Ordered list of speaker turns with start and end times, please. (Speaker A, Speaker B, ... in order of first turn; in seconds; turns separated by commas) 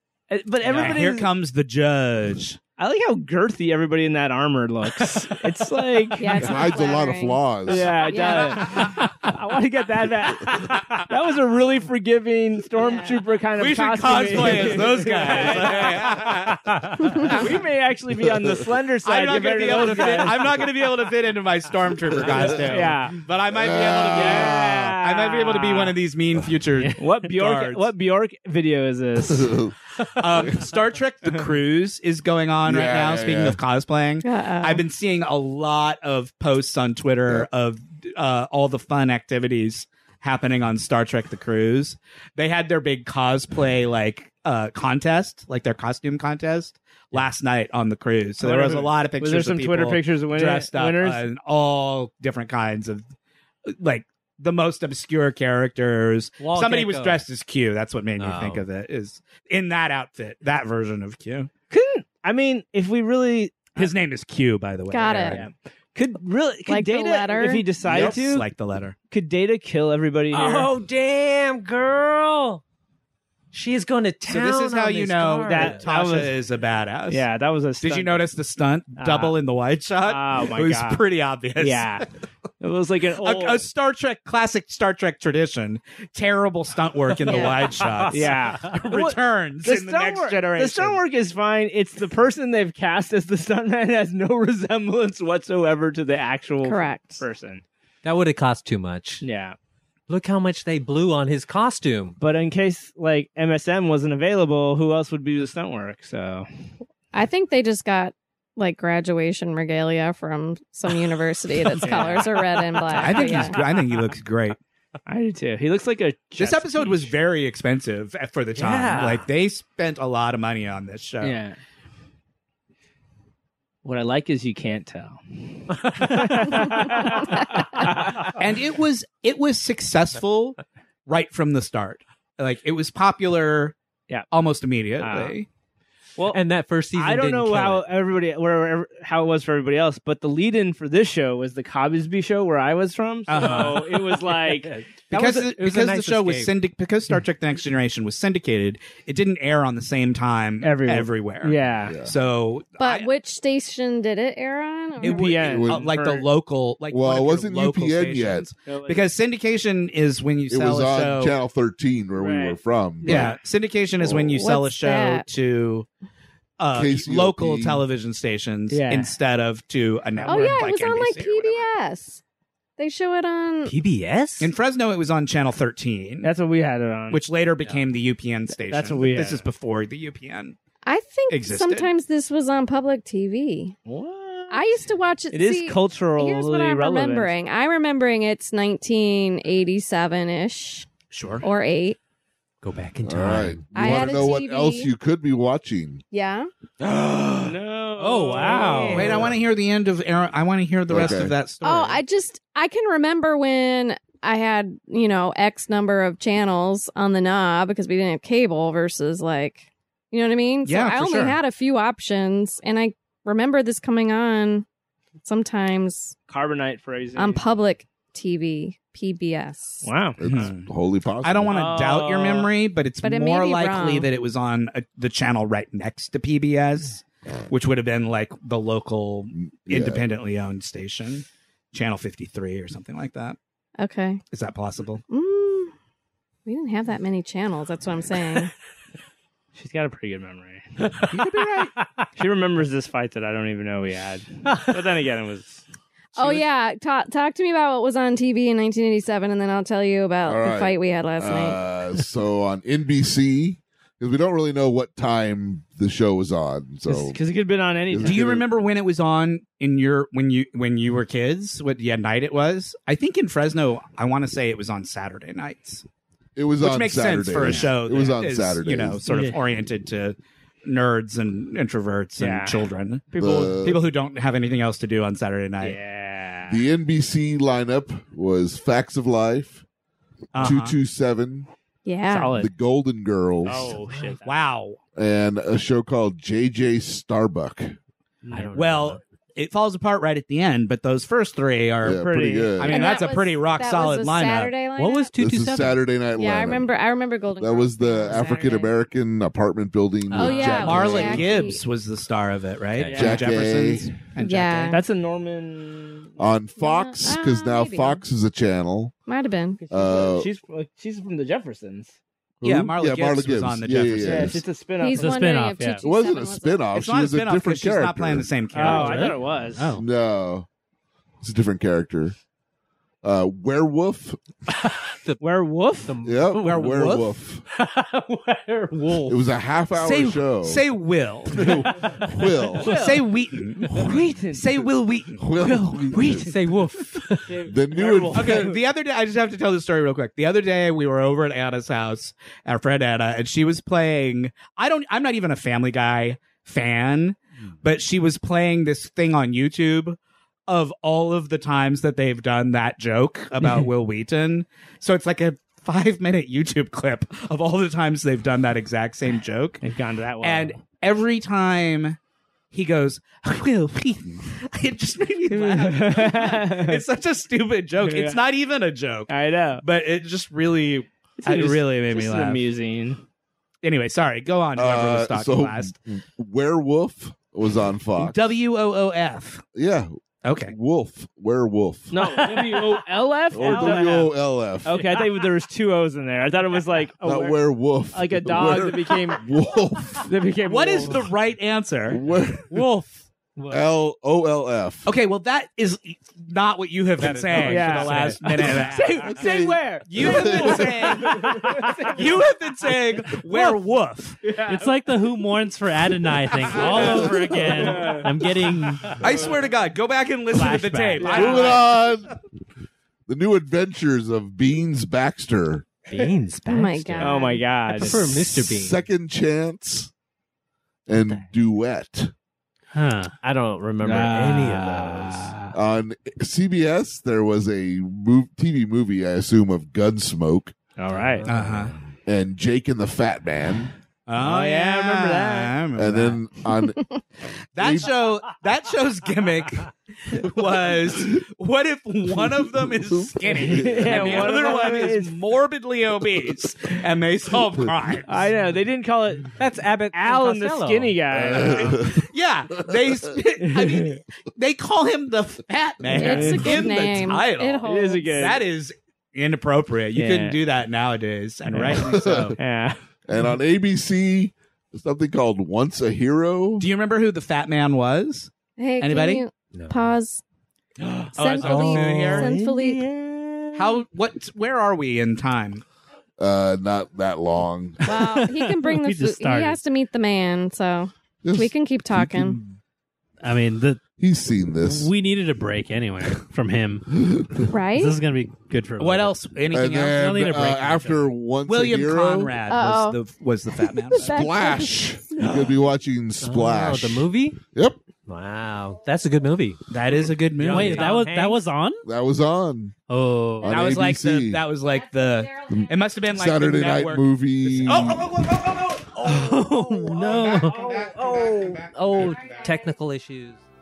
Speaker A: 0.3-1.3, Speaker B: 0.6-2.6, Speaker C: 0.7-1.0, Speaker A: 2.8-6.5, Speaker D: 6.2-7.4, Speaker E: 6.3-8.2, Speaker A: 7.7-16.2, Speaker D: 8.0-8.8, Speaker B: 10.5-11.0, Speaker D: 12.8-13.2, Speaker B: 13.6-17.5, Speaker A: 17.2-20.7, Speaker B: 19.0-27.9, Speaker A: 22.2-23.3, Speaker E: 22.3-22.6, Speaker E: 23.5-25.0, Speaker A: 24.1-26.0, Speaker A: 26.9-29.6, Speaker E: 29.2-29.7, Speaker B: 30.0-53.0, Speaker E: 30.2-30.6, Speaker E: 32.6-33.6, Speaker D: 34.2-34.8, Speaker A: 48.4-51.3, Speaker B: 53.7-61.5, Speaker C: 56.4-57.2, Speaker C: 58.2-58.6, Speaker A: 61.7-63.9, Speaker B: 63.7-65.5, Speaker D: 64.9-65.4, Speaker A: 65.3-68.5, Speaker D: 66.7-67.7, Speaker B: 67.8-69.0, Speaker E: 67.9-68.2, Speaker A: 69.1-70.7, Speaker C: 70.3-72.6, Speaker C: 73.5-75.8, Speaker B: 74.3-77.2, Speaker A: 75.5-76.3, Speaker A: 77.1-78.3, Speaker B: 77.8-82.0, Speaker A: 79.0-79.4, Speaker A: 80.0-81.0, Speaker A: 81.6-82.0, Speaker A: 82.6-83.6, Speaker B: 83.2-91.0, Speaker A: 87.3-87.6, Speaker D: 87.3-87.5, Speaker C: 87.4-88.4, Speaker A: 88.1-97.6, Speaker D: 96.6-97.2, Speaker C: 98.0-99.2, Speaker A: 99.2-99.5, Speaker C: 100.1-102.2, Speaker A: 102.2-106.5, Speaker D: 107.1-113.6, Speaker A: 111.8-113.7, Speaker B: 113.0-114.6, Speaker A: 115.0-117.1, Speaker B: 116.4-121.4, Speaker C: 118.5-119.3, Speaker A: 121.2-121.6, Speaker A: 123.8-128.4, Speaker B: 128.3-133.8, Speaker B: 134.3-135.5, Speaker A: 135.0-135.4, Speaker C: 136.3-137.8, Speaker A: 136.9-145.3, Speaker B: 143.3-144.0, Speaker C: 143.4-146.5, Speaker B: 145.1-153.1, Speaker A: 150.6-152.0, Speaker E: 151.8-152.1, Speaker D: 152.8-155.3, Speaker A: 155.0-156.2, Speaker B: 155.0-161.4, Speaker E: 155.4-155.9, Speaker E: 156.9-158.5, Speaker A: 158.7-159.1, Speaker E: 160.5-163.3, Speaker A: 162.1-163.4, Speaker B: 163.0-165.9, Speaker E: 164.0-164.4, Speaker D: 164.4-165.2, Speaker B: 166.6-171.6, Speaker E: 166.7-167.8, Speaker A: 168.7-169.1, Speaker A: 170.2-170.6, Speaker D: 170.2-172.2, Speaker D: 172.8-173.7, Speaker C: 173.7-174.5, Speaker B: 174.4-176.3, Speaker A: 176.2-177.2, Speaker B: 177.1-180.6, Speaker A: 178.6-179.4, Speaker D: 180.8-183.8, Speaker B: 181.3-181.9, Speaker A: 183.8-184.8, Speaker D: 184.5-190.9, Speaker A: 185.3-187.3, Speaker B: 191.1-191.4, Speaker D: 191.4-192.0, Speaker C: 192.6-194.1, Speaker E: 193.0-196.0, Speaker D: 193.7-194.9, Speaker D: 196.1-196.5, Speaker A: 197.4-199.3, Speaker C: 198.0-199.3, Speaker F: 198.0-199.1, Speaker B: 198.9-202.0, Speaker E: 200.9-201.3, Speaker D: 201.6-214.7, Speaker B: 210.7-211.3, Speaker D: 215.2-216.1, Speaker A: 216.3-217.4, Speaker D: 217.2-219.9, Speaker A: 219.8-220.5, Speaker E: 220.2-221.7, Speaker B: 220.2-220.7, Speaker B: 221.2-233.4, Speaker A: 221.5-222.5, Speaker D: 223.0-224.1, Speaker E: 229.3-230.0, Speaker D: 233.8-234.2, Speaker B: 234.3-235.0, Speaker D: 235.1-235.7, Speaker D: 236.4-238.5, Speaker A: 239.5-241.1, Speaker B: 241.1-241.7, Speaker A: 242.2-245.6, Speaker A: 246.2-246.4, Speaker D: 246.2-251.6, Speaker E: 250.2-257.2, Speaker A: 256.9-258.3, Speaker E: 257.9-258.4, Speaker B: 258.0-265.8, Speaker E: 266.4-269.0, Speaker B: 266.6-273.1, Speaker A: 267.4-267.7, Speaker A: 272.2-273.7, Speaker E: 273.2-273.8, Speaker B: 273.6-275.8, Speaker A: 275.6-276.6, Speaker E: 276.5-279.6, Speaker B: 280.3-280.8, Speaker E: 280.3-281.5, Speaker D: 281.8-282.3, Speaker A: 282.1-282.5, Speaker E: 282.3-283.8, Speaker A: 283.4-284.3, Speaker C: 283.9-284.1, Speaker B: 284.2-284.8, Speaker E: 284.9-287.8, Speaker A: 288.2-288.6, Speaker C: 288.3-289.0, Speaker B: 288.5-292.0, Speaker E: 291.8-292.9, Speaker A: 291.9-292.7, Speaker B: 292.6-294.5, Speaker D: 292.7-295.1, Speaker C: 294.8-295.8, Speaker E: 295.2-296.7, Speaker D: 296.2-298.7, Speaker E: 297.4-301.4, Speaker C: 300.1-301.3, Speaker D: 300.1-301.6, Speaker A: 300.2-300.6, Speaker B: 300.6-304.8, Speaker C: 302.8-303.2, Speaker A: 302.9-303.3, Speaker E: 302.9-303.9, Speaker D: 304.2-304.8, Speaker A: 304.7-306.2, Speaker E: 306.2-308.9, Speaker D: 306.6-308.0, Speaker D: 309.1-309.6, Speaker A: 309.6-312.0, Speaker E: 309.7-310.3, Speaker E: 312.4-314.4, Speaker B: 312.4-314.4, Speaker A: 314.0-315.3, Speaker D: 314.8-316.7, Speaker F: 314.9-315.8, Speaker E: 315.8-318.3, Speaker B: 316.7-319.1, Speaker A: 318.5-319.8, Speaker F: 318.6-319.8, Speaker E: 319.7-320.5, Speaker E: 321.2-322.1, Speaker E: 323.0-324.2, Speaker C: 324.8-325.2, Speaker A: 325.2-326.0, Speaker C: 325.9-326.6, Speaker E: 326.0-327.4, Speaker B: 326.4-327.1, Speaker C: 327.5-329.2, Speaker E: 329.1-330.6, Speaker B: 329.8-331.7, Speaker E: 331.3-332.8, Speaker A: 332.6-333.1, Speaker B: 332.6-336.3, Speaker A: 333.6-334.6, Speaker E: 335.2-336.3, Speaker C: 336.0-337.4, Speaker A: 337.3-338.6, Speaker E: 337.4-338.6, Speaker B: 338.1-359.6, Speaker A: 359.6-360.6, Speaker B: 360.2-362.0, Speaker B: 362.5-372.4, Speaker A: 365.3-366.8, Speaker A: 367.8-368.2, Speaker A: 369.1-369.6, Speaker A: 371.2-373.0, Speaker B: 373.6-375.7, Speaker E: 374.5-378.2, Speaker B: 378.0-379.4, Speaker E: 379.5-382.3, Speaker B: 380.2-380.5, Speaker A: 381.9-384.1, Speaker E: 383.3-385.0, Speaker A: 384.6-389.3, Speaker E: 387.0-390.1, Speaker A: 390.0-391.1, Speaker B: 390.4-392.0, Speaker E: 391.9-392.6, Speaker E: 393.5-394.9, Speaker B: 394.9-399.2, Speaker C: 397.0-398.8, Speaker A: 397.4-402.1, Speaker E: 399.1-400.8, Speaker B: 399.9-404.2, Speaker A: 404.2-404.7, Speaker F: 404.5-409.1, Speaker A: 406.4-408.2, Speaker B: 408.9-411.8, Speaker F: 410.3-411.1, Speaker A: 411.0-411.6, Speaker E: 411.1-412.1, Speaker E: 413.1-415.6, Speaker C: 415.9-418.8, Speaker D: 416.5-417.4, Speaker A: 417.0-418.2, Speaker E: 418.3-419.9, Speaker E: 420.9-422.1, Speaker C: 420.9-421.2, Speaker F: 422.7-423.1, Speaker C: 423.2-425.3, Speaker A: 423.8-425.5, Speaker E: 425.5-430.5, Speaker A: 430.8-431.3, Speaker C: 430.9-431.8, Speaker B: 431.3-431.7, Speaker E: 432.1-433.7, Speaker B: 434.1-436.2, Speaker A: 434.2-435.6, Speaker E: 435.8-436.9, Speaker B: 437.6-448.3, Speaker E: 437.6-437.9, Speaker E: 442.6-444.1, Speaker A: 443.4-445.1, Speaker A: 448.1-449.4, Speaker C: 449.4-451.0, Speaker A: 449.9-451.9, Speaker E: 451.1-452.1, Speaker B: 451.6-462.3, Speaker A: 453.4-454.0, Speaker D: 455.9-458.4, Speaker A: 455.9-456.7, Speaker A: 457.6-458.4, Speaker A: 459.9-460.4, Speaker A: 461.5-462.8, Speaker E: 461.7-462.4, Speaker E: 463.1-466.7, Speaker B: 466.6-469.2, Speaker D: 468.6-470.2, Speaker C: 469.5-469.8, Speaker C: 470.8-473.8, Speaker B: 471.1-472.3, Speaker D: 471.1-472.8, Speaker B: 473.5-475.6, Speaker E: 476.2-477.9, Speaker D: 477.9-482.4, Speaker F: 477.9-479.6, Speaker E: 481.2-482.6, Speaker F: 483.2-483.8, Speaker E: 484.0-484.9, Speaker F: 484.6-489.1, Speaker D: 487.5-488.0, Speaker B: 488.8-490.2, Speaker E: 489.5-492.3, Speaker F: 489.9-491.1, Speaker B: 491.4-494.2, Speaker D: 492.5-493.0, Speaker D: 493.6-495.4, Speaker E: 494.0-497.8, Speaker C: 496.2-497.4, Speaker C: 498.1-499.6, Speaker B: 499.7-500.9, Speaker C: 500.4-501.4, Speaker F: 500.4-501.8, Speaker E: 501.8-502.7, Speaker F: 502.9-503.8, Speaker E: 503.4-504.4, Speaker B: 503.5-509.1, Speaker E: 505.5-508.1, Speaker C: 509.0-513.4, Speaker F: 509.1-510.5, Speaker B: 510.0-512.6, Speaker A: 510.4-511.2